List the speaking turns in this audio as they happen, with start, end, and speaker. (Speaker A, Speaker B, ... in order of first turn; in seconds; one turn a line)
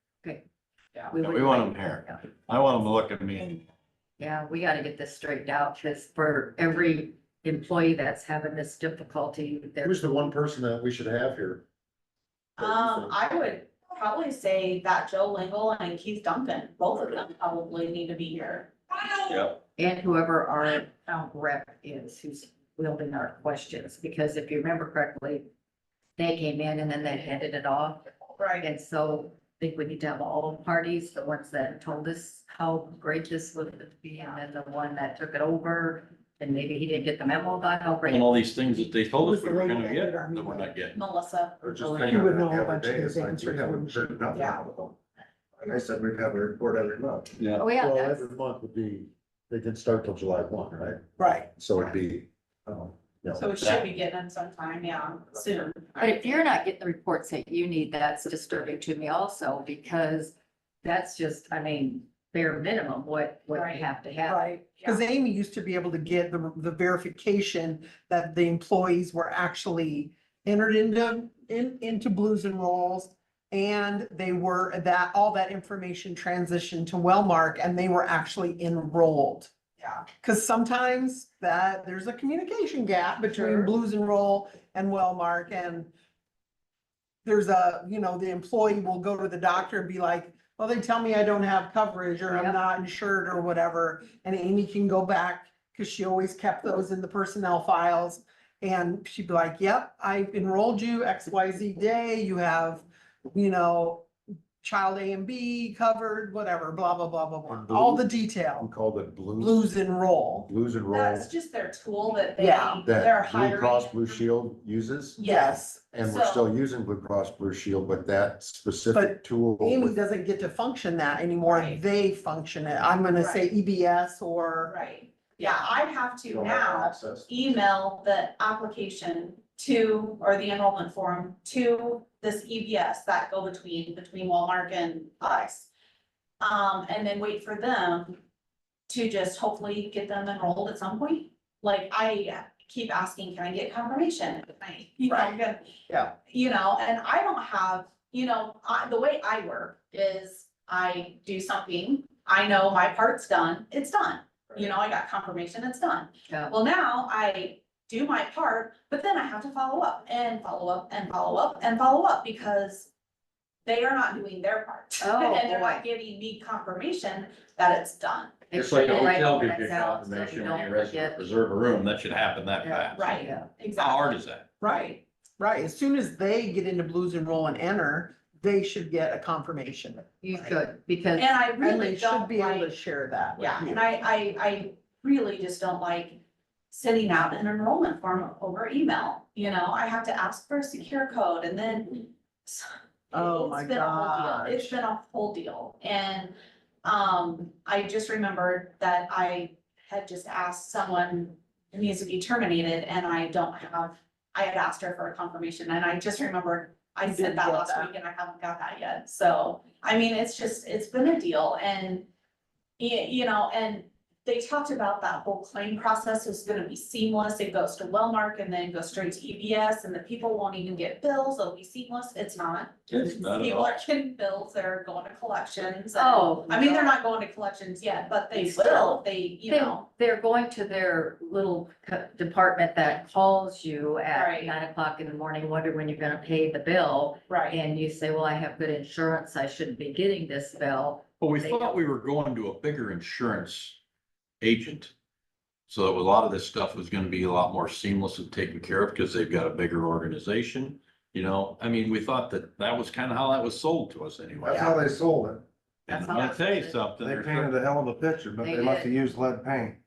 Speaker A: 1.1-2.2
Speaker B: 1.2-3.6
Speaker A: 4.2-10.4
Speaker C: 9.8-11.6
Speaker C: 12.6-13.3
Speaker D: 12.6-19.4
Speaker B: 19.2-19.6
Speaker A: 19.8-25.4
Speaker A: 26.2-28.0
Speaker D: 28.4-28.7
Speaker A: 28.6-38.4
Speaker B: 38.1-41.0
Speaker E: 39.0-40.8
Speaker D: 40.9-41.5
Speaker F: 41.6-45.0
Speaker E: 41.9-44.4
Speaker D: 44.3-44.6
Speaker F: 45.6-47.3
Speaker B: 47.4-47.6
Speaker A: 47.6-48.3
Speaker C: 47.6-53.5
Speaker E: 51.2-51.5
Speaker D: 53.3-56.4
Speaker B: 53.6-53.9
Speaker A: 56.0-60.3
Speaker A: 60.8-64.5
Speaker D: 63.5-63.9
Speaker E: 64.2-79.5
Speaker D: 64.7-65.0
Speaker D: 79.8-80.0
Speaker E: 80.1-85.9
Speaker D: 83.3-83.7
Speaker E: 87.2-104.1
Speaker A: 92.3-92.6
Speaker E: 104.6-108.7
Speaker C: 107.5-109.7
Speaker E: 109.4-110.5
Speaker C: 110.5-111.3
Speaker D: 110.9-114.2
Speaker E: 112.4-112.8
Speaker C: 112.8-115.2
Speaker D: 115.2-116.5
Speaker E: 115.2-116.0
Speaker C: 115.9-120.0
Speaker E: 118.9-124.7
Speaker D: 121.4-121.8
Speaker D: 123.2-123.5
Speaker D: 124.6-135.7
Speaker F: 126.2-127.4
Speaker D: 136.4-138.2
Speaker D: 138.9-162.9
Speaker E: 145.1-145.3
Speaker E: 145.9-146.1
Speaker A: 156.3-156.6
Speaker D: 163.7-170.0
Speaker A: 165.0-165.8
Speaker A: 168.5-171.3
Speaker B: 168.5-174.5
Speaker A: 172.6-173.5
Speaker D: 172.9-174.1
Speaker E: 174.6-180.6
Speaker D: 174.6-175.0
Speaker A: 180.2-181.4
Speaker D: 181.1-182.7
Speaker E: 181.6-183.9
Speaker D: 183.4-212.1
Speaker E: 193.1-194.8
Speaker E: 207.1-207.9
Speaker D: 212.8-229.8
Speaker B: 222.9-223.8
Speaker A: 225.9-227.0
Speaker A: 228.3-241.8
Speaker D: 234.1-234.5
Speaker D: 237.3-237.6
Speaker B: 241.2-243.8
Speaker B: 244.4-244.9
Speaker B: 245.7-254.8
Speaker F: 254.4-255.4
Speaker D: 254.5-254.8
Speaker A: 255.9-256.9
Speaker B: 255.9-257.6
Speaker F: 257.0-259.8
Speaker A: 258.4-258.9